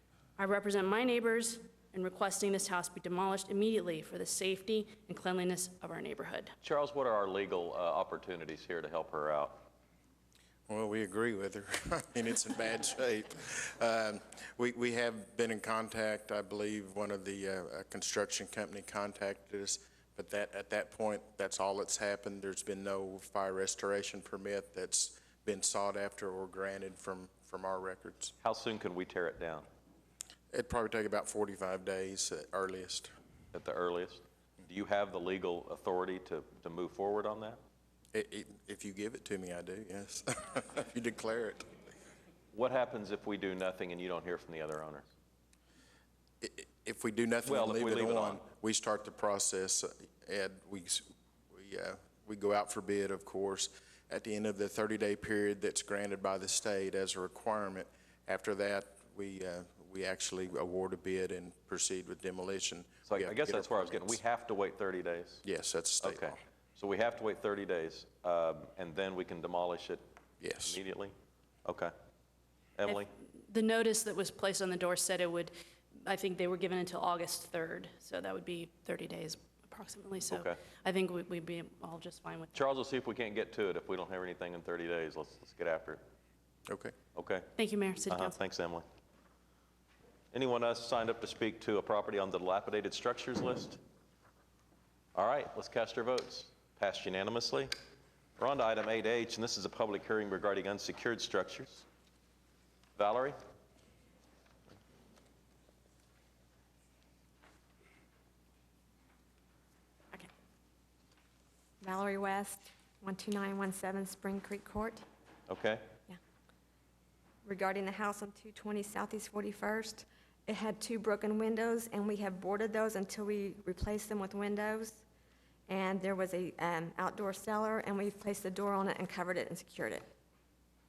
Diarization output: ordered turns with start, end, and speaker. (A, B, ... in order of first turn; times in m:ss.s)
0:00.4-0:06.5 A
0:06.6-0:09.6 B
0:10.7-0:28.3 C
0:28.4-0:29.6 B
0:30.5-0:33.1 C
0:33.5-0:37.6 B
0:38.1-0:41.7 C
0:42.5-0:45.1 B
0:46.4-1:04.2 C
0:47.4-0:48.4 B
1:03.1-1:05.4 B
1:05.4-1:06.4 C
1:06.0-1:10.0 B
1:10.4-1:10.8 C
1:10.6-1:11.1 B
1:11.6-1:11.9 B
1:12.8-1:13.1 B
1:12.8-1:22.6 A
1:20.3-1:20.6 B
1:22.5-1:26.0 B
1:26.7-1:26.9 C
1:27.1-1:27.5 B
1:27.6-1:28.4 A
1:28.1-1:28.8 B
1:30.3-1:33.8 B
1:35.2-1:37.7 B
1:38.4-1:41.8 B
1:43.0-1:43.4 B
1:51.8-1:55.0 D
1:55.5-1:55.8 B
1:57.4-2:05.0 D
2:05.7-2:10.1 D